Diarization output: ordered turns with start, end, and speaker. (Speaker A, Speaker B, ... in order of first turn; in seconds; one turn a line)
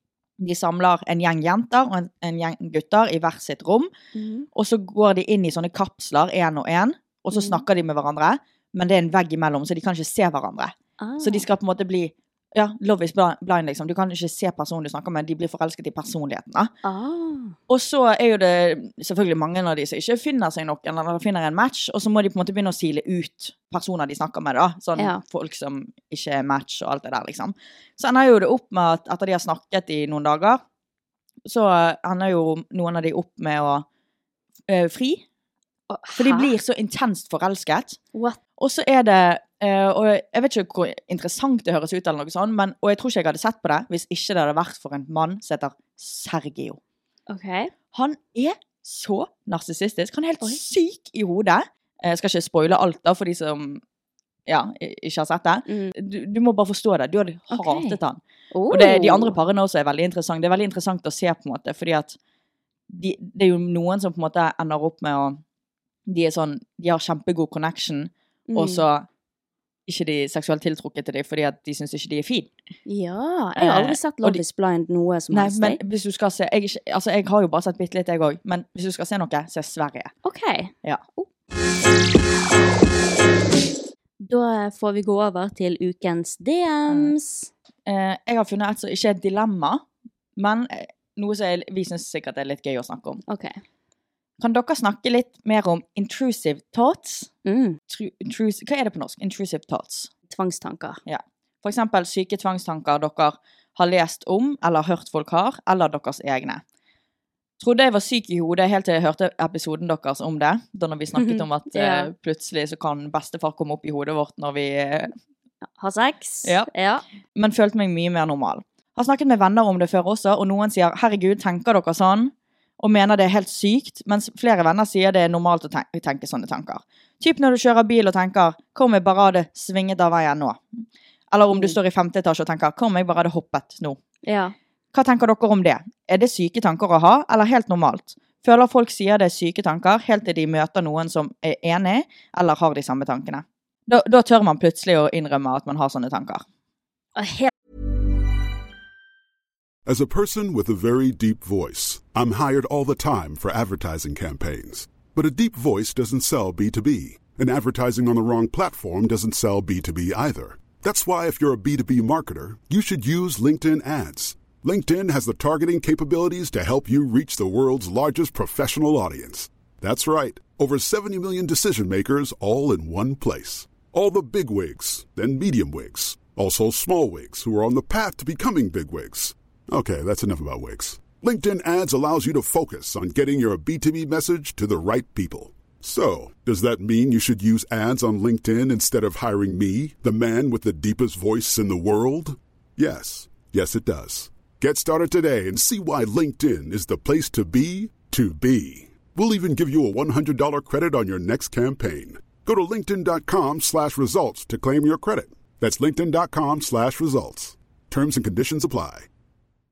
Speaker A: 0.4-3.9
Speaker B: 4.1-4.5
Speaker A: 4.5-16.7
Speaker B: 7.3-7.6
Speaker B: 11.0-11.5
Speaker B: 16.8-17.6
Speaker A: 17.7-30.6
Speaker B: 25.0-25.2
Speaker A: 31.4-33.8
Speaker A: 34.7-35.2
Speaker B: 35.9-36.5
Speaker A: 36.1-38.0
Speaker B: 38.1-38.4
Speaker A: 38.6-46.8
Speaker B: 47.3-47.7
Speaker A: 47.9-53.8
Speaker A: 54.5-62.2
Speaker B: 55.7-55.9
Speaker B: 57.5-58.0
Speaker B: 58.5-59.4
Speaker A: 62.9-65.4
Speaker A: 66.1-69.1
Speaker B: 68.5-68.8
Speaker A: 69.9-72.5
Speaker B: 72.8-75.8
Speaker A: 73.6-74.4
Speaker A: 75.3-80.1
Speaker B: 80.2-81.3
Speaker B: 84.2-87.5
Speaker A: 86.9-87.1
Speaker A: 87.8-89.8
Speaker A: 90.4-93.2
Speaker B: 93.3-93.6
Speaker A: 94.4-97.3
Speaker B: 97.4-97.8
Speaker A: 97.9-100.1
Speaker B: 100.3-101.0
Speaker A: 101.0-106.6
Speaker A: 107.6-115.1
Speaker B: 111.2-112.1
Speaker B: 115.8-117.0
Speaker A: 117.3-134.0
Speaker B: 131.5-131.8
Speaker B: 134.2-134.5
Speaker A: 134.9-146.4
Speaker B: 147.2-147.5
Speaker C: 149.8-209.1